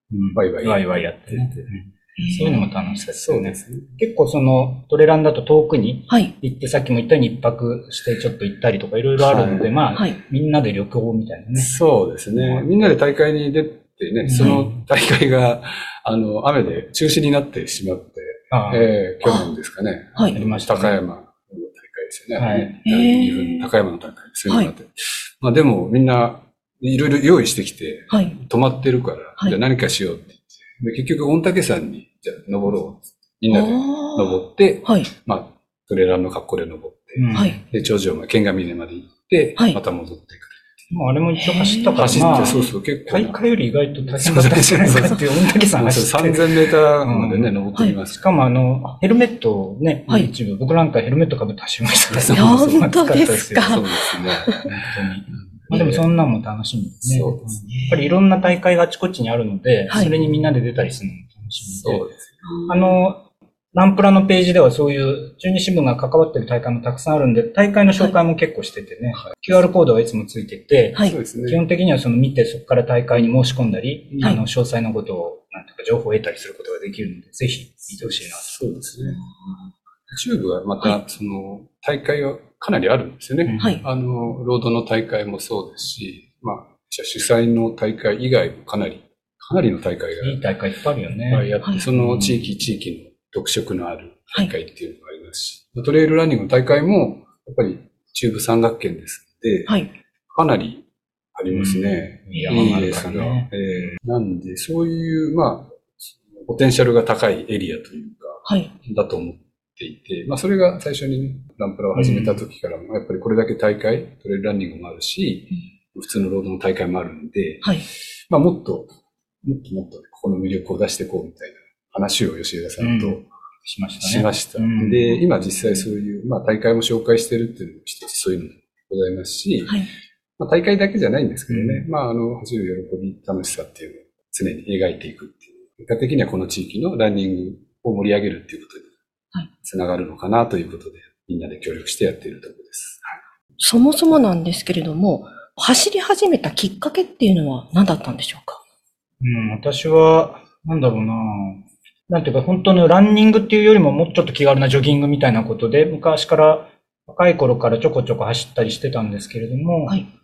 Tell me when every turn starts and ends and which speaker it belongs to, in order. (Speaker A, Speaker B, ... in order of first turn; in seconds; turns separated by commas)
Speaker A: 0.1-11.7, Speaker B: 0.3-1.7, Speaker C: 2.2-3.0, Speaker B: 3.1-3.9, Speaker B: 9.2-9.7, Speaker B: 11.6-40.9, Speaker A: 14.2-14.7, Speaker C: 14.4-14.6, Speaker A: 18.5-18.9, Speaker C: 19.2-19.5, Speaker A: 20.3-21.0, Speaker A: 22.4-22.8, Speaker C: 22.9-23.7, Speaker C: 33.5-35.1, Speaker A: 37.2-37.6, Speaker A: 40.9-47.5, Speaker C: 41.4-42.7, Speaker B: 42.0-43.4, Speaker B: 44.1-48.3, Speaker A: 48.1-53.8, Speaker B: 52.1-52.9, Speaker C: 52.4-54.6, Speaker B: 53.6-55.0, Speaker A: 54.8-62.1, Speaker B: 55.7-56.0, Speaker B: 57.0-57.6, Speaker B: 61.8-63.0, Speaker A: 62.7-78.5, Speaker B: 71.0-71.6, Speaker B: 78.0-79.2, Speaker B: 80.1-90.4, Speaker A: 83.5-83.8, Speaker A: 90.2-92.5, Speaker B: 91.3-99.8, Speaker C: 99.7-99.9, Speaker B: 100.3-123.3, Speaker A: 101.5-104.0, Speaker C: 108.5-108.7, Speaker A: 112.0-112.4, Speaker A: 122.8-125.1, Speaker B: 124.0-129.8, Speaker B: 130.4-138.9, Speaker A: 131.5-131.9, Speaker B: 139.6-143.1, Speaker C: 143.6-148.6, Speaker A: 149.2-160.0